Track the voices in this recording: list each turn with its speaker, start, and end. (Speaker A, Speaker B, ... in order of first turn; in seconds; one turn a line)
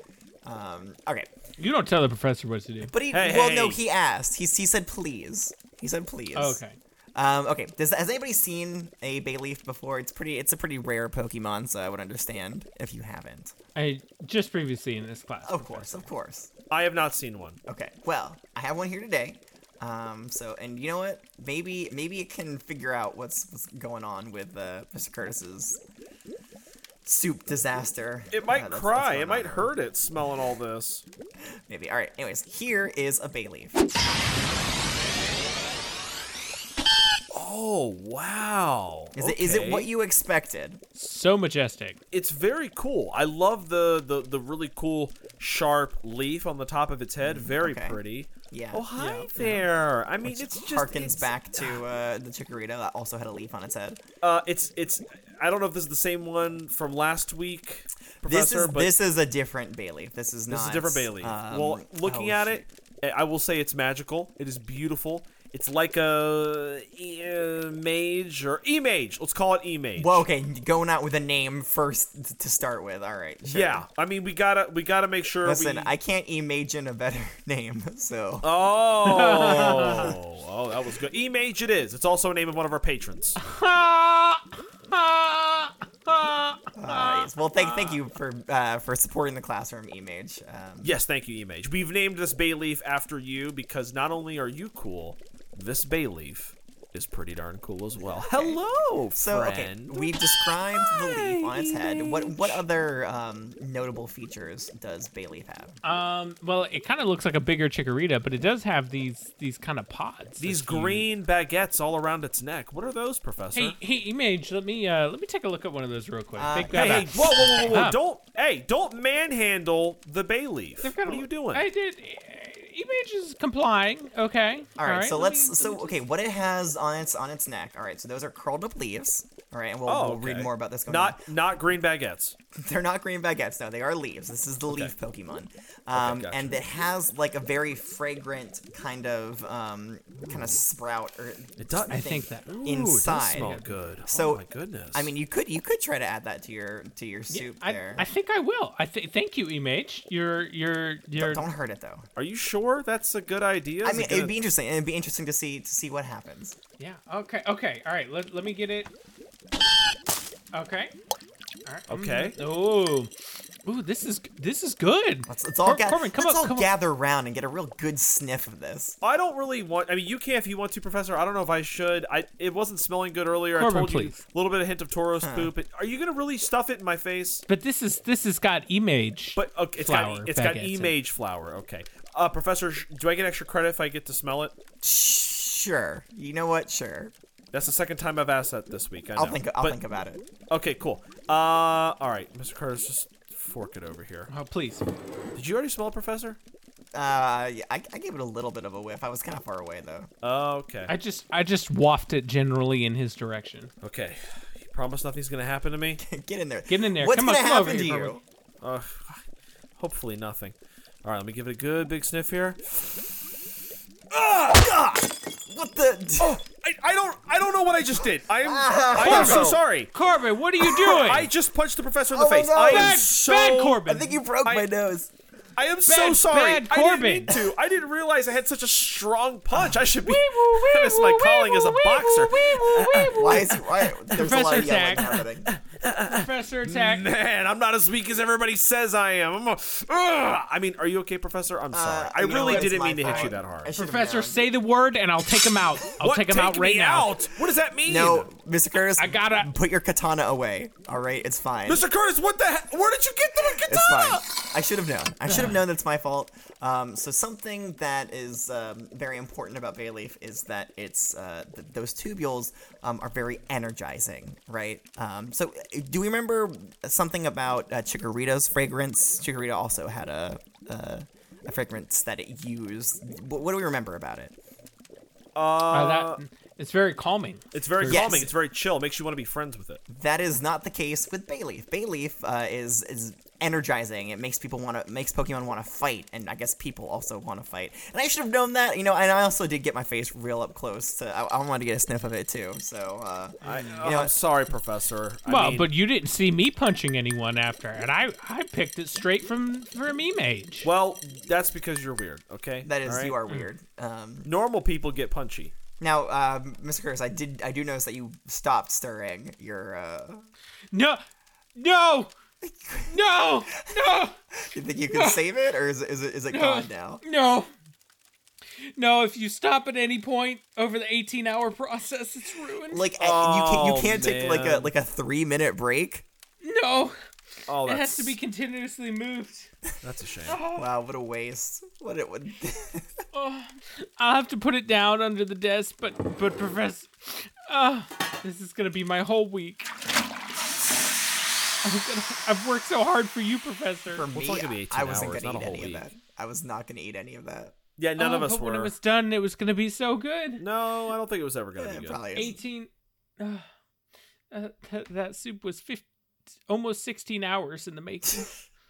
Speaker A: 0.4-1.3
Speaker B: 1.6-2.9
Speaker A: 2.8-6.6
Speaker C: 3.1-3.8
Speaker B: 6.3-6.8
Speaker A: 7.2-13.5
Speaker B: 13.7-16.1
Speaker A: 15.4-16.5
Speaker C: 16.7-17.6
Speaker A: 17.7-25.8
Speaker A: 27.0-29.7
Speaker C: 28.3-31.0
Speaker A: 31.7-33.8
Speaker C: 37.3-39.9
Speaker A: 39.1-40.8
Speaker B: 40.9-42.0
Speaker C: 42.1-51.8
Speaker A: 47.2-48.0
Speaker A: 48.5-48.8
Speaker B: 49.0-49.6
Speaker A: 50.2-54.0
Speaker C: 54.2-58.9
Speaker A: 58.2-62.6
Speaker C: 60.5-70.2
Speaker A: 70.0-73.8
Speaker C: 73.5-75.9
Speaker A: 75.4-78.5
Speaker C: 78.4-83.4
Speaker B: 79.0-80.1
Speaker A: 79.4-80.2
Speaker B: 83.4-87.3
Speaker A: 86.8-91.0
Speaker C: 87.5-88.0
Speaker C: 90.8-100.2
Speaker A: 97.9-98.6
Speaker A: 99.2-105.8
Speaker C: 101.4-102.4
Speaker B: 105.8-111.1
Speaker C: 110.4-113.8
Speaker B: 113.5-118.0
Speaker A: 116.3-117.1
Speaker C: 116.7-121.7
Speaker B: 120.8-126.0
Speaker A: 124.8-131.2
Speaker C: 129.9-132.3
Speaker A: 132.5-143.5
Speaker C: 134.7-134.9
Speaker C: 135.9-136.7
Speaker C: 140.2-140.6
Speaker C: 141.6-145.1
Speaker B: 141.9-142.5
Speaker B: 143.3-143.7
Speaker A: 144.1-144.4
Speaker A: 144.9-148.1
Speaker B: 147.3-151.4
Speaker A: 151.2-152.1
Speaker C: 152.2-154.3
Speaker A: 153.8-156.6
Speaker B: 156.8-158.9
Speaker B: 160.5-160.9
Speaker B: 161.7-163.1
Speaker C: 161.9-162.4
Speaker B: 163.6-166.7
Speaker A: 165.3-169.0
Speaker C: 169.0-177.4
Speaker B: 173.5-174.2
Speaker A: 175.2-175.5
Speaker B: 177.5-180.9
Speaker C: 179.3-184.5
Speaker A: 184.8-187.1
Speaker C: 187.5-189.8
Speaker A: 189.2-190.2
Speaker C: 190.5-194.3
Speaker B: 194.3-194.8
Speaker C: 195.3-196.4
Speaker A: 196.9-200.1
Speaker C: 200.2-200.9
Speaker B: 200.9-203.7
Speaker C: 203.8-206.0
Speaker A: 206.0-208.2
Speaker B: 206.7-208.1
Speaker C: 208.6-209.2
Speaker C: 209.8-213.1
Speaker C: 214.1-215.0
Speaker A: 215.4-216.4
Speaker C: 216.2-219.9
Speaker A: 218.4-219.6
Speaker B: 219.0-221.3
Speaker C: 220.7-223.8
Speaker A: 222.1-223.0
Speaker B: 222.6-224.2
Speaker A: 223.8-225.1
Speaker C: 225.6-233.4
Speaker B: 225.8-227.3
Speaker B: 229.6-235.2
Speaker A: 232.9-235.5
Speaker C: 235.4-243.7
Speaker B: 236.0-237.1
Speaker A: 241.7-244.4
Speaker B: 242.2-247.2
Speaker C: 246.0-248.3
Speaker A: 247.8-251.8
Speaker B: 249.0-249.5
Speaker C: 251.7-254.2
Speaker A: 253.4-274.3
Speaker B: 255.3-255.6
Speaker C: 275.3-276.2
Speaker B: 275.7-278.2
Speaker C: 277.5-279.8
Speaker A: 277.9-278.3
Speaker A: 279.9-294.1
Speaker B: 293.4-293.8
Speaker C: 293.4-295.7
Speaker B: 295.3-300.7
Speaker C: 300.6-303.2
Speaker A: 302.6-304.3
Speaker C: 304.2-305.5
Speaker A: 305.8-310.2
Speaker B: 310.7-311.0
Speaker B: 311.6-312.1
Speaker A: 312.4-313.8
Speaker B: 312.9-314.2
Speaker A: 314.5-317.0
Speaker B: 314.9-315.2
Speaker B: 316.3-317.5
Speaker B: 318.7-322.8
Speaker A: 322.7-326.1
Speaker C: 323.0-324.7
Speaker B: 326.4-326.9
Speaker C: 327.5-328.2
Speaker B: 327.5-329.5
Speaker C: 329.8-330.4
Speaker B: 330.3-330.7
Speaker A: 330.4-333.0
Speaker B: 333.1-339.7
Speaker B: 341.6-344.1
Speaker A: 343.9-347.6
Speaker C: 344.1-345.9
Speaker C: 347.8-348.7
Speaker B: 348.0-350.4
Speaker C: 350.4-352.0
Speaker A: 351.6-352.4
Speaker B: 352.1-353.4
Speaker B: 354.3-355.9
Speaker B: 356.5-358.3
Speaker A: 358.1-358.3